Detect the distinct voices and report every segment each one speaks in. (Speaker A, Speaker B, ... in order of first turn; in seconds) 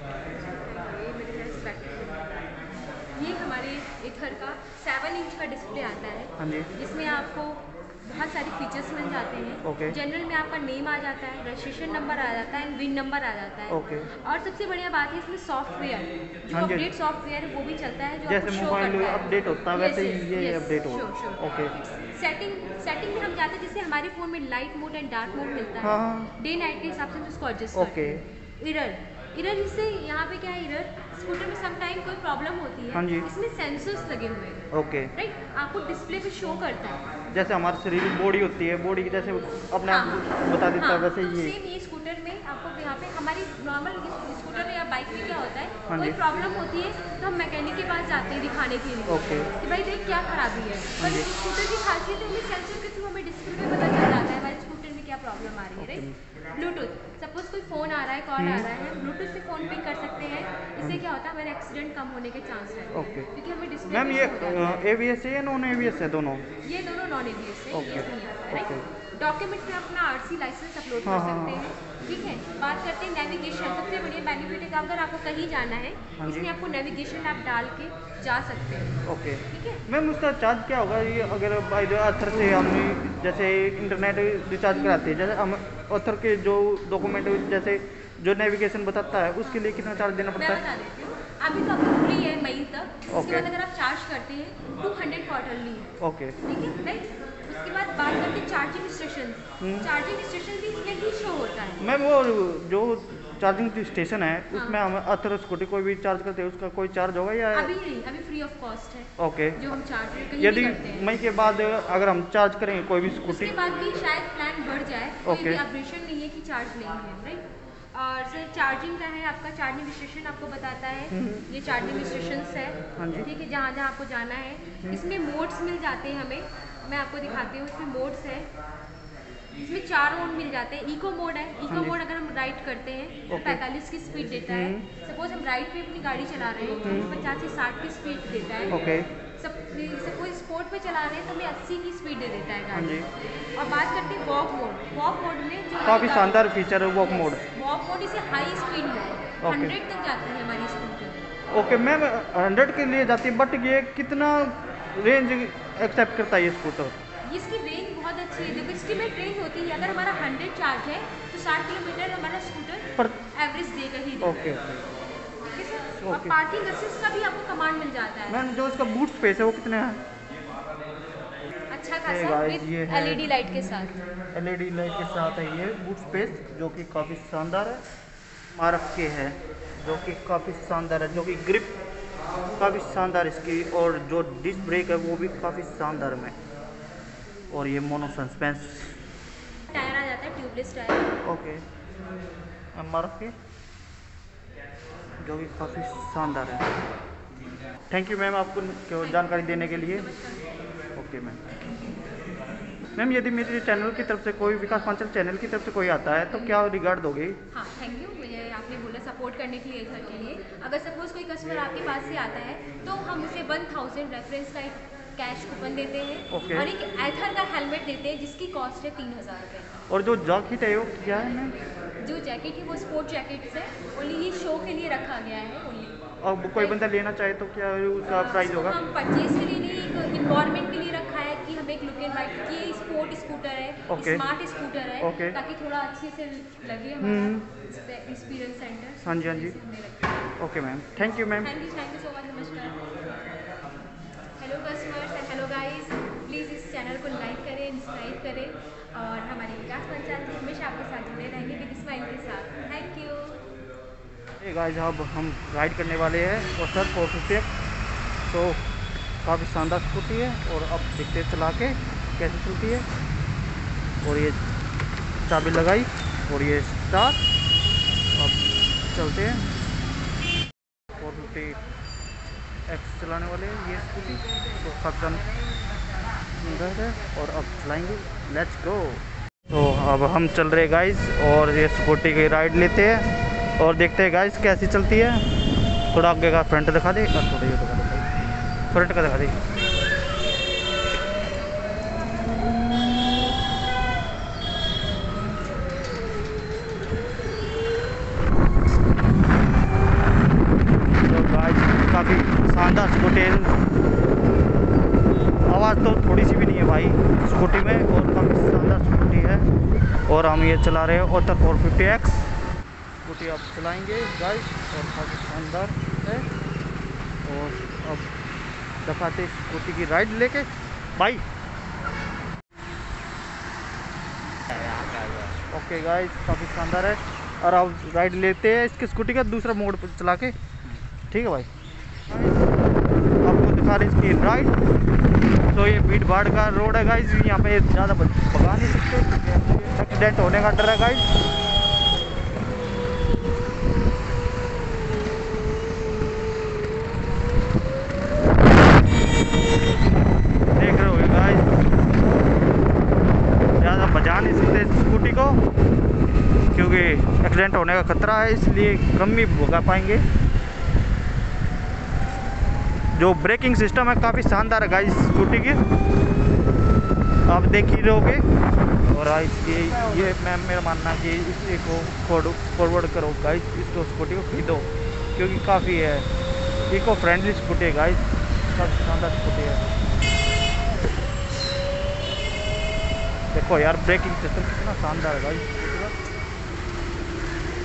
Speaker A: 0.3-2.2, 3.1-37.0, 39.9-64.8, 66.6-79.0, 79.5-79.8, 84.7-85.2, 90.3-101.9, 104.5-104.8, 107.5-111.1, 113.3-128.5, 129.6-138.8, 139.4-142.9, 143.6-151.3, 157.2-164.4, 165.4-168.4, 171.7-173.9, 189.7-191.2, 199.0-200.5, 207.5-219.7, 222.0-226.0, 228.0-240.3, 241.4-242.8, 244.4-253.4
Speaker B: 6.4-6.7, 9.6-10.0, 13.7-14.1, 16.5-16.9, 18.3-21.7, 25.8-26.3, 27.7-28.2, 32.9-33.3, 34.7-35.1, 37.3-41.5, 45.9-46.2, 49.1-49.5, 51.0-51.3, 55.8-56.2, 58.4-58.7, 62.9-63.3, 63.9-66.4, 67.7-68.8, 71.0-71.7, 76.2-76.5, 79.0-90.6, 93.1-93.5, 96.0-96.4, 99.6-99.9, 101.8-107.7, 109.2-109.6, 110.4-113.5, 115.2-115.6, 121.1-121.5, 123.0-123.3, 131.7-132.0, 133.3-133.6, 134.5-134.9, 136.8-137.1, 138.7-139.1, 142.7-143.1, 145.8-147.4, 149.4-149.8, 151.5-157.0, 164.2-164.8, 165.9-166.4, 168.3-170.0, 172.1-173.3, 174.3-177.8, 178.5-181.8, 182.6-186.3, 187.5-189.0, 191.2-191.6, 192.7-193.3, 195.2-196.7, 197.9-200.1, 200.9-201.4, 202.9-207.4, 216.3-216.7, 219.9-221.5, 226.2-228.8, 233.9-234.2, 235.0-235.4, 237.0-237.5, 239.0-239.6, 240.4-241.5, 254.4-257.5, 258.2-258.6, 259.2-262.8, 264.0-264.4, 265.2-267.2, 268.1-268.4, 268.9-269.4, 270.9-271.6, 272.7-275.2, 276.4-283.1, 283.6-285.2, 285.9-288.1, 288.7-289.4, 300.9-303.6, 305.3-309.5, 310.1-312.2, 313.0-316.3, 317.2-318.1, 318.8-321.2, 324.6-331.5, 332.1-332.5, 333.2-334.6, 335.5-341.1, 350.5-351.8, 353.6-355.4, 356.5-360.0, 362.9-365.6, 367.2-368.2, 368.9-376.1, 376.7-379.7, 383.3-385.9